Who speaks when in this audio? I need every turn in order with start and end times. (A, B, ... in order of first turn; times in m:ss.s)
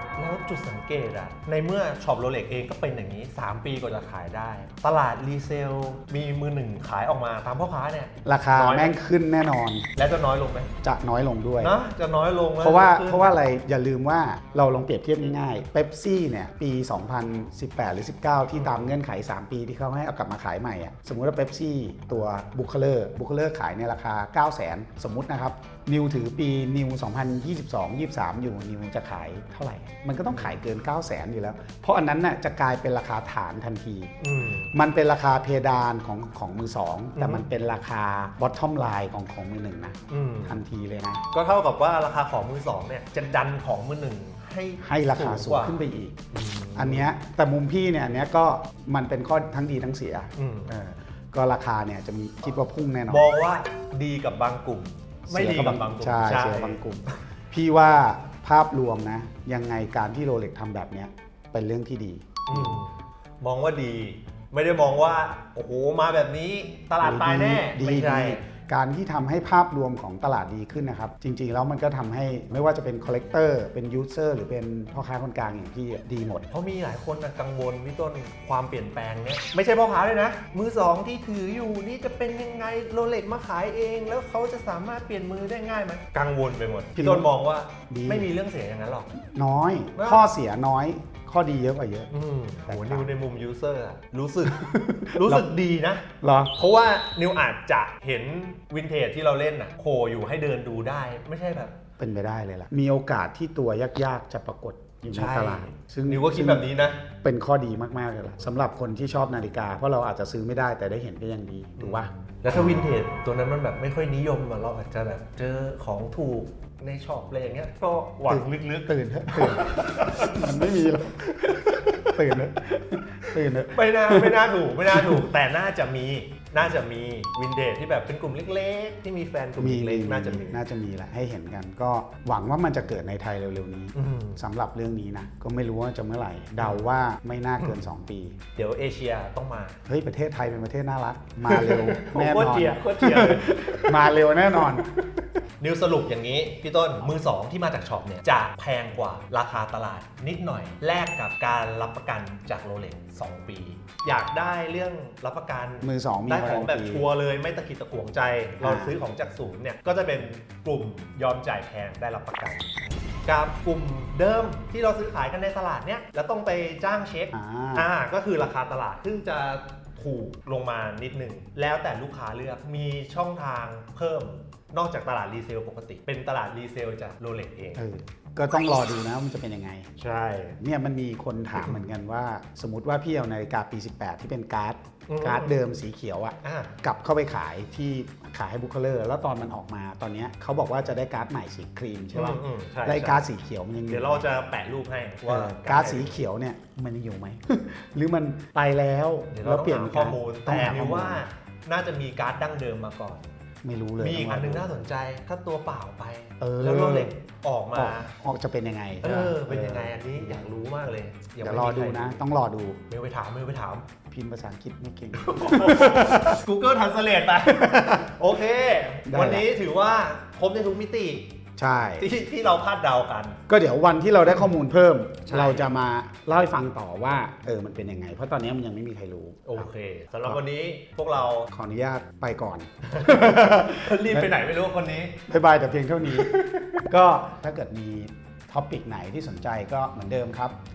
0:00.2-0:09.0 A
0:08.2-0:09.9 B
0:10.0-0:10.7 A
0:10.8-0:11.7 B
0:11.6-0:13.3 A
0:12.6-0:34.1 B
0:18.6-0:18.9 A
0:34.2-0:34.7 A
0:34.7-0:41.2 B
0:37.2-0:37.5 A
0:40.1-0:40.6 A
0:41.3-0:45.8 A
0:44.8-0:46.2 B
0:46.3-0:47.1 A
0:46.8-0:53.3 B
0:50.4-0:50.7 A
0:53.1-0:56.8 A
0:55.3-1:02.8 B
1:02.5-1:08.4 A
1:07.0-1:16.5 B
1:16.5-1:29.1 A
1:27.0-1:27.3 B
1:27.9-1:28.3 B
1:29.2-1:32.1 B
1:30.0-1:30.3 A
1:32.1-1:41.7 A
1:32.7-1:33.2 B
1:34.4-1:35.5 B
1:36.2-1:36.5 B
1:42.0-1:46.7 B
1:45.1-1:47.0 A
1:47.2-1:52.8 B
1:51.8-2:00.6 A
1:58.3-2:05.3 B
2:01.3-2:02.2 A
2:03.7-2:10.6 A
2:09.6-2:18.4 B
2:14.0-2:14.4 A
2:18.6-2:19.8 A
2:19.9-2:24.9 B
2:21.5-2:24.1 A
2:25.6-2:57.8 A
2:35.8-2:37.1 B
2:38.6-2:39.0 B
2:47.3-2:47.9 B
2:57.8-2:59.9 B
3:00.0-3:00.6 A
3:00.6-3:14.3 B
3:05.1-3:05.5 A
3:06.4-3:06.7 A
3:12.1-3:13.3 A
3:13.9-3:16.2 A
3:15.3-3:21.2 B
3:19.3-3:23.3 A
3:23.6-3:24.7 B
3:24.0-3:28.1 A
3:26.4-3:27.1 B
3:27.7-3:30.5 B
3:29.0-3:32.2 A
3:31.4-3:32.8 B
3:32.9-3:33.8 A
3:34.1-3:36.4 B
3:35.2-3:41.3 A
3:37.5-3:38.1 B
3:39.1-3:39.5 B
3:41.6-3:42.1 B
3:42.0-3:43.4 A
3:43.5-3:49.7 B
3:45.3-3:45.7 A
3:49.4-3:51.5 A
3:51.5-3:54.4 B
3:52.9-3:55.2 A
3:55.3-4:00.6 B
3:56.1-3:56.8 A